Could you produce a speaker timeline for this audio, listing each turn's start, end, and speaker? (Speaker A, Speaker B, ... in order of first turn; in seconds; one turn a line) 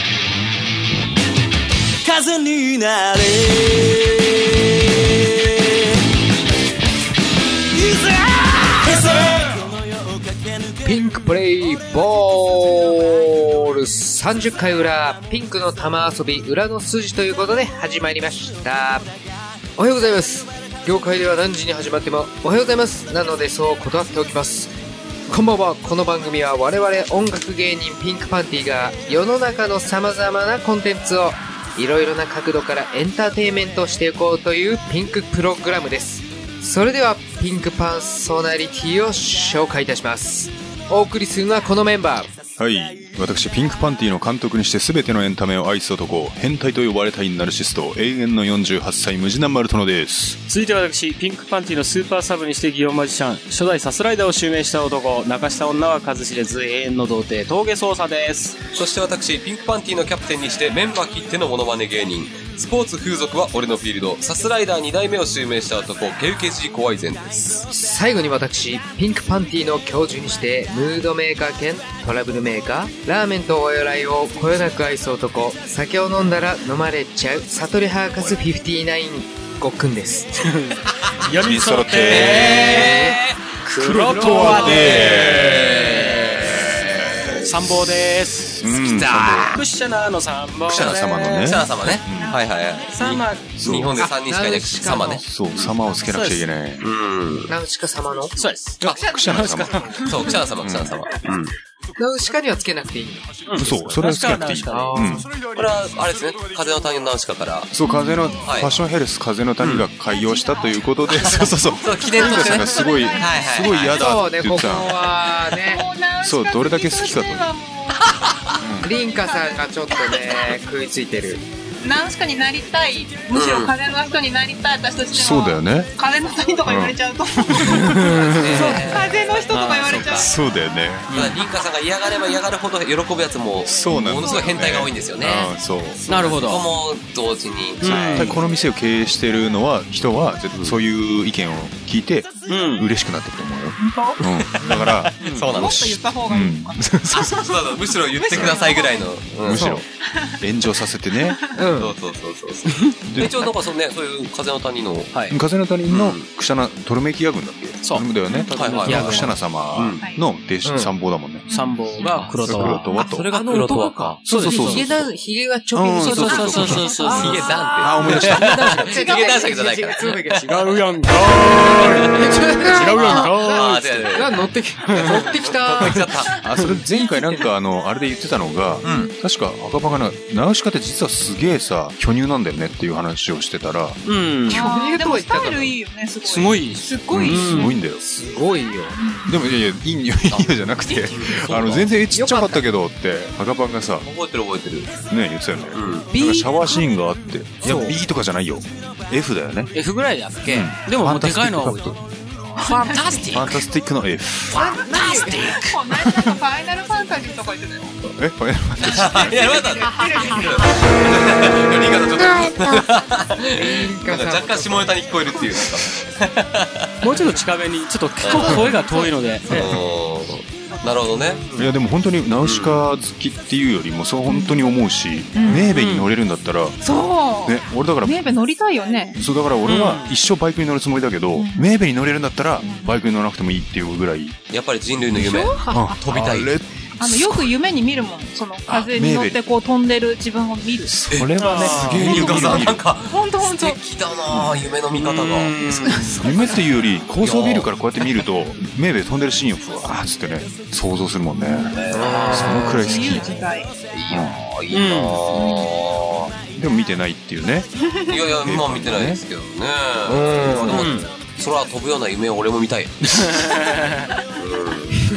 Speaker A: 10.8-19.1
Speaker A: 19.8-24.7
Speaker A: 25.3-42.3
Speaker B: 42.6-50.4
Speaker C: 50.5-58.6
Speaker D: 58.7-67.7
Speaker A: 67.7-80.5
Speaker C: 80.5-92.0
Speaker B: 81.3-83.1
Speaker D: 82.0-83.1
Speaker B: 83.7-89.6
Speaker D: 84.2-86.6
Speaker D: 88.8-89.6
Speaker B: 90.7-92.4
Speaker D: 90.8-95.7
Speaker E: 92.1-92.4
Speaker C: 92.9-93.5
Speaker B: 93.6-94.0
Speaker A: 94.0-95.2
Speaker B: 95.2-96.9
Speaker C: 96.1-96.5
Speaker D: 96.8-97.5
Speaker A: 97.5-98.4
Speaker C: 98.4-100.4
Speaker B: 98.8-101.0
Speaker A: 99.2-100.1
Speaker D: 100.0-101.5
Speaker A: 102.0-104.1
Speaker C: 103.5-105.1
Speaker B: 103.5-105.3
Speaker A: 104.7-105.3
Speaker D: 105.5-107.7
Speaker B: 107.7-115.1
Speaker E: 107.8-108.5
Speaker D: 108.5-108.8
Speaker D: 109.6-109.9
Speaker E: 110.1-113.8
Speaker D: 111.2-114.0
Speaker A: 113.8-115.8
Speaker E: 115.5-118.2
Speaker B: 116.2-117.5
Speaker B: 118.6-118.9
Speaker A: 118.8-121.4
Speaker E: 119.0-119.6
Speaker E: 121.8-130.3
Speaker D: 123.3-123.7
Speaker B: 125.1-125.9
Speaker B: 126.7-128.3
Speaker C: 128.2-128.9
Speaker D: 128.4-129.1
Speaker A: 128.6-129.0
Speaker C: 129.5-130.2
Speaker B: 129.9-131.1
Speaker C: 131.1-131.4
Speaker D: 131.1-135.5
Speaker B: 133.7-136.1
Speaker E: 133.9-134.5
Speaker C: 136.1-136.7
Speaker D: 136.1-138.4
Speaker C: 137.8-138.4
Speaker B: 137.8-147.5
Speaker C: 142.5-142.9
Speaker E: 143.8-144.2
Speaker D: 144.3-146.0
Speaker C: 145.2-145.7
Speaker E: 145.5-149.1
Speaker D: 147.1-149.7
Speaker B: 148.3-148.6
Speaker B: 149.4-149.9
Speaker A: 149.6-149.8
Speaker E: 150.1-150.4
Speaker B: 150.4-151.4
Speaker E: 151.2-151.7
Speaker A: 151.5-151.9
Speaker D: 151.8-155.1
Speaker C: 152.8-153.3
Speaker B: 153.1-153.4
Speaker C: 155.1-155.4
Speaker B: 155.3-161.5
Speaker D: 155.9-156.3
Speaker C: 157.8-159.3
Speaker D: 158.6-160.0
Speaker A: 158.9-159.2
Speaker A: 160.6-160.9
Speaker E: 161.5-162.3
Speaker C: 161.5-162.9
Speaker B: 162.4-163.3
Speaker D: 162.5-164.2
Speaker A: 163.3-170.8
Speaker B: 164.2-165.0
Speaker C: 164.3-164.9
Speaker B: 165.7-168.8
Speaker C: 166.0-167.6
Speaker D: 167.1-170.6
Speaker C: 170.4-174.2
Speaker A: 171.8-176.1
Speaker D: 172.9-176.4
Speaker C: 174.9-175.3
Speaker B: 176.4-184.0
Speaker D: 178.9-179.1
Speaker C: 184.1-184.7
Speaker A: 184.5-185.7
Speaker E: 184.5-187.7
Speaker C: 186.2-187.8
Speaker B: 187.1-188.0
Speaker A: 187.5-189.0
Speaker E: 189.0-189.4
Speaker B: 189.3-194.1
Speaker D: 190.3-191.9
Speaker A: 192.1-192.6
Speaker D: 194.0-194.9
Speaker B: 195.1-199.8
Speaker D: 195.7-196.1
Speaker A: 196.1-196.8
Speaker A: 197.6-198.0
Speaker C: 199.7-201.9
Speaker B: 200.4-202.1
Speaker C: 202.6-203.6
Speaker E: 202.6-203.2
Speaker B: 203.3-204.8
Speaker C: 204.5-205.8
Speaker A: 204.5-205.5
Speaker E: 204.6-208.0
Speaker B: 205.9-206.4
Speaker B: 208.2-209.6
Speaker D: 208.8-216.9
Speaker E: 209.0-211.2
Speaker B: 211.3-211.5
Speaker A: 213.4-214.9
Speaker C: 217.0-219.6
Speaker D: 218.2-218.7
Speaker B: 218.4-218.8
Speaker E: 218.6-219.1
Speaker D: 219.5-221.7
Speaker B: 219.5-219.8
Speaker B: 221.6-228.2
Speaker D: 222.4-222.9
Speaker E: 224.3-224.6
Speaker E: 225.3-225.7
Speaker C: 225.6-226.1
Speaker E: 226.8-229.2
Speaker B: 229.2-234.4
Speaker C: 229.7-230.1
Speaker E: 231.3-231.7
Speaker E: 232.6-233.0
Speaker D: 234.5-236.6
Speaker E: 235.2-235.9
Speaker B: 235.7-237.5
Speaker E: 237.0-240.9
Speaker B: 238.7-239.4
Speaker B: 240.9-242.9
Speaker D: 241.1-246.0
Speaker C: 241.4-242.7
Speaker E: 243.1-243.8
Speaker B: 244.3-244.7
Speaker C: 245.0-246.4
Speaker B: 246.0-253.3
Speaker D: 247.2-247.7
Speaker D: 251.7-252.6
Speaker A: 251.9-252.9
Speaker C: 252.1-252.5
Speaker E: 252.5-253.8
Speaker D: 253.9-256.3
Speaker B: 254.1-254.4
Speaker C: 254.7-255.5
Speaker E: 255.3-255.7
Speaker B: 256.5-257.7
Speaker D: 258.1-263.4
Speaker B: 258.4-259.2
Speaker A: 260.1-260.9
Speaker C: 260.7-261.1
Speaker C: 263.2-264.1
Speaker D: 264.4-265.0